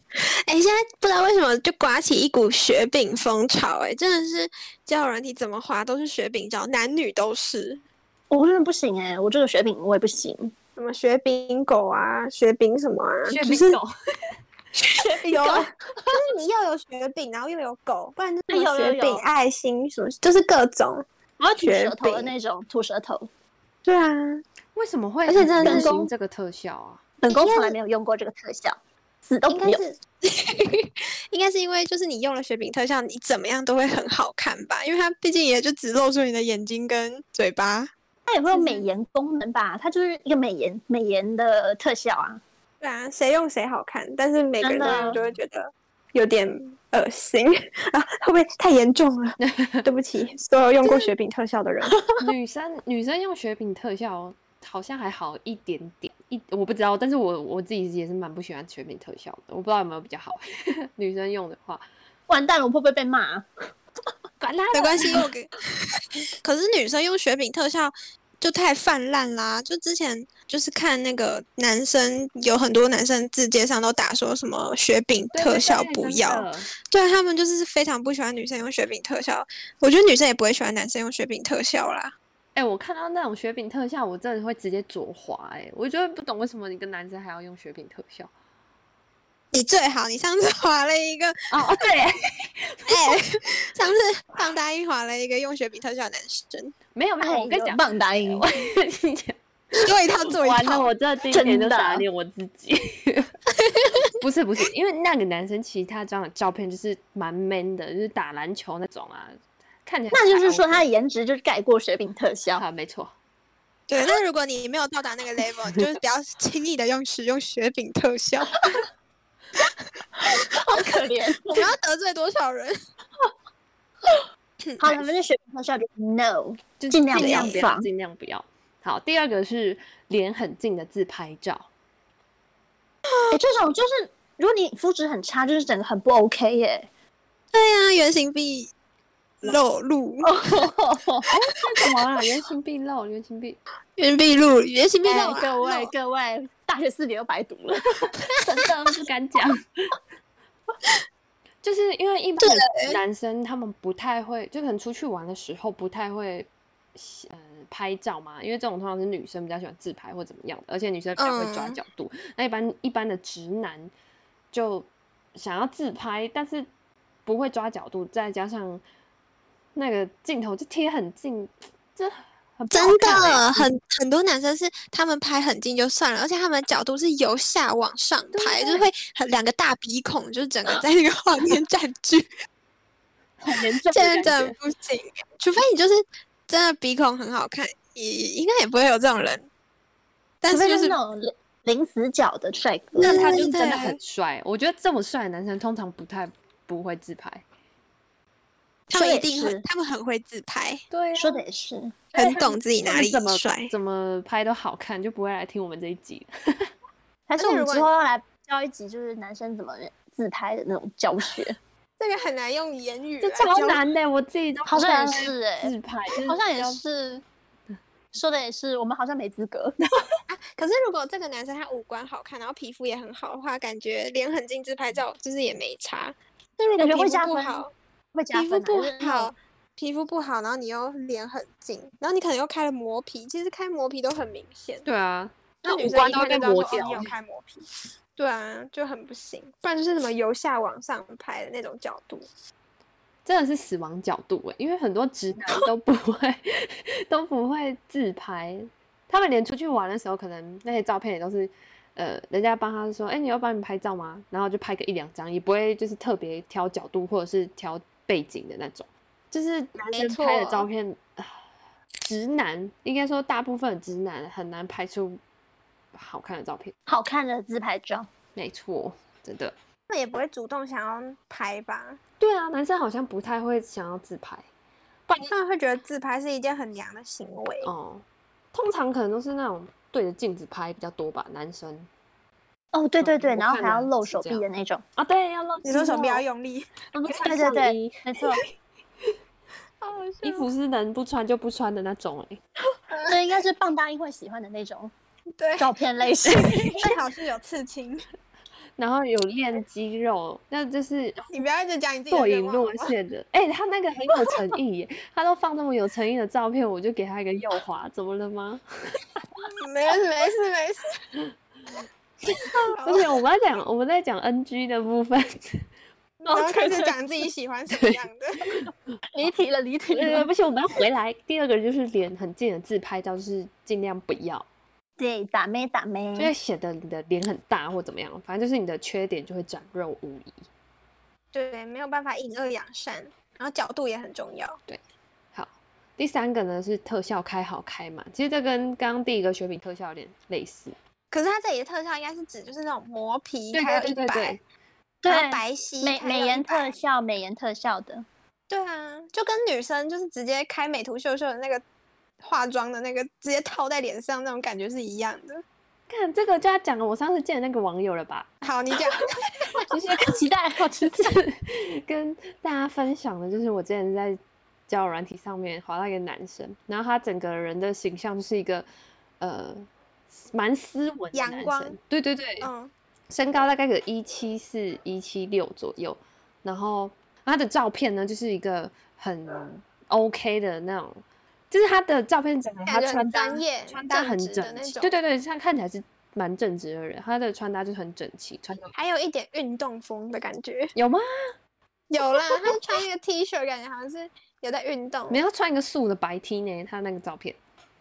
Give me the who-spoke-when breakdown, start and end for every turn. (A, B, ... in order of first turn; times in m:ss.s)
0:00.5-0:07.8 A
0:08.3-0:10.5 B
0:10.8-0:13.8 A
0:13.3-0:13.9 C
0:14.8-0:21.0 A
0:15.0-0:16.2 B
0:18.5-0:19.2 B
0:21.4-0:23.3 B
0:21.6-0:22.3 A
0:23.8-0:24.4 A
0:24.8-0:27.0 C
0:25.3-0:25.9 A
0:25.6-0:26.1 B
0:27.2-0:29.8 B
0:27.3-0:27.8 A
0:29.5-0:37.9 A
0:38.3-0:42.4 B
0:38.5-0:38.9 A
0:42.8-0:52.0 A
0:44.6-0:45.2 B
0:44.8-0:45.4 C
0:49.4-0:49.8 C
0:50.8-0:51.1 C
0:52.2-1:01.8 C
1:02.3-1:03.5 B
1:04.4-1:05.2 C
1:04.7-1:22.1 A
1:15.3-1:16.7 C
1:22.6-1:28.3 C
1:29.5-1:31.5 A
1:31.5-1:33.2 C
1:32.9-1:36.8 A
1:36.9-1:39.4 C
1:37.2-1:38.4 B
1:39.8-1:40.9 A
1:40.3-1:43.3 C
1:41.3-1:42.0 B
1:43.6-1:44.1 A
1:44.2-1:50.9 C
1:50.1-1:52.6 B
1:52.6-1:53.2 C
1:53.9-1:58.8 A
2:00.2-2:01.6 B
2:00.2-2:00.6 A
2:01.4-2:02.8 A
2:04.6-2:05.0 A
2:04.8-2:07.9 B
2:06.8-2:11.7 C
2:07.2-2:07.6 A
2:13.3-2:16.9 B
2:17.5-2:18.7 A
2:19.4-2:20.3 A
2:20.2-2:21.3 B
2:21.5-2:23.6 C
2:24.0-2:25.9 A
2:25.0-2:28.8 B
2:28.4-2:30.0 C
2:31.6-2:43.9 C
2:32.4-2:33.0 A
2:41.2-2:41.8 A
2:44.5-2:46.7 C
2:47.3-2:48.8 C
2:49.8-2:53.7 C
2:52.7-3:02.3 A
2:58.3-2:58.9 C
3:03.4-3:04.6 C
3:03.8-3:09.5 A
3:10.4-3:11.0 A
3:10.5-3:13.5 B
3:13.0-3:17.4 C
3:13.0-3:14.0 A
3:18.9-3:20.8 A
3:18.9-3:19.6 B
3:20.9-3:21.4 C
3:21.2-3:22.0 B
3:22.2-3:23.7 A
3:22.2-3:26.7 C
3:27.3-3:31.6 B
3:27.4-3:27.9 A
3:32.0-3:33.8 A
3:33.2-3:36.8 C
3:34.7-3:37.2 B
3:38.1-3:39.8 B
3:40.3-3:47.7 A
3:46.8-3:49.3 B
3:48.3-3:54.8 A
3:54.8-3:57.1 C
3:55.6-3:57.6 A
3:58.2-4:02.3 A
4:03.2-4:21.4 C
4:19.9-4:20.7 A
4:22.0-4:25.2 C
4:25.9-4:26.7 C
4:26.9-4:28.1 B
4:28.4-4:29.6 C
4:29.9-4:32.0 A
4:32.2-4:34.5 C
4:35.1-4:35.3 C
4:35.3-4:37.7 A
4:37.6-4:41.9 C
4:42.7-4:44.8 B
4:43.0-4:44.4 C
4:45.0-4:46.2 C
4:45.6-4:47.6 A
4:46.9-4:48.4 C
4:47.0-4:48.4 B
4:49.8-4:50.5 A
4:50.2-4:52.4 C
4:52.9-4:53.2 A
4:53.1-4:54.9 B
4:55.4-4:55.7 A
4:55.6-4:56.8 B
4:56.3-4:58.1 A
4:56.3-4:56.8 C
4:58.8-5:01.3 C
5:01.3-5:02.9 A
5:02.1-5:09.0 C
5:09.6-5:11.0 A
5:12.2-5:15.7 C
5:12.8-5:13.1 A
5:16.2-5:18.6 A
5:16.3-5:17.0 C
5:17.7-5:18.0 C
5:19.1-5:20.3 B
5:19.9-5:24.5 C
5:25.0-5:26.3 B
5:26.2-5:30.4 C
5:31.3-5:34.6 A
5:35.3-5:40.8 C
5:41.1-5:44.4 A
5:43.5-5:44.4 C
5:45.0-5:48.0 B
5:45.1-5:46.8 A
5:48.5-5:51.6 A
5:52.2-5:55.4 A
5:55.9-5:58.3 C
5:58.4-5:59.6 A
5:59.6-6:00.2 C
6:00.0-6:01.2 B
6:00.9-6:08.7 C
6:09.2-6:12.5 C
6:11.1-6:11.8 A
6:12.4-6:12.7 A
6:13.1-6:28.7 C
6:22.7-6:24.9 A
6:28.8-6:30.7 A
6:30.8-6:31.1 C
6:31.9-6:35.2 A
6:32.4-6:32.6 C
6:35.1-6:37.4 C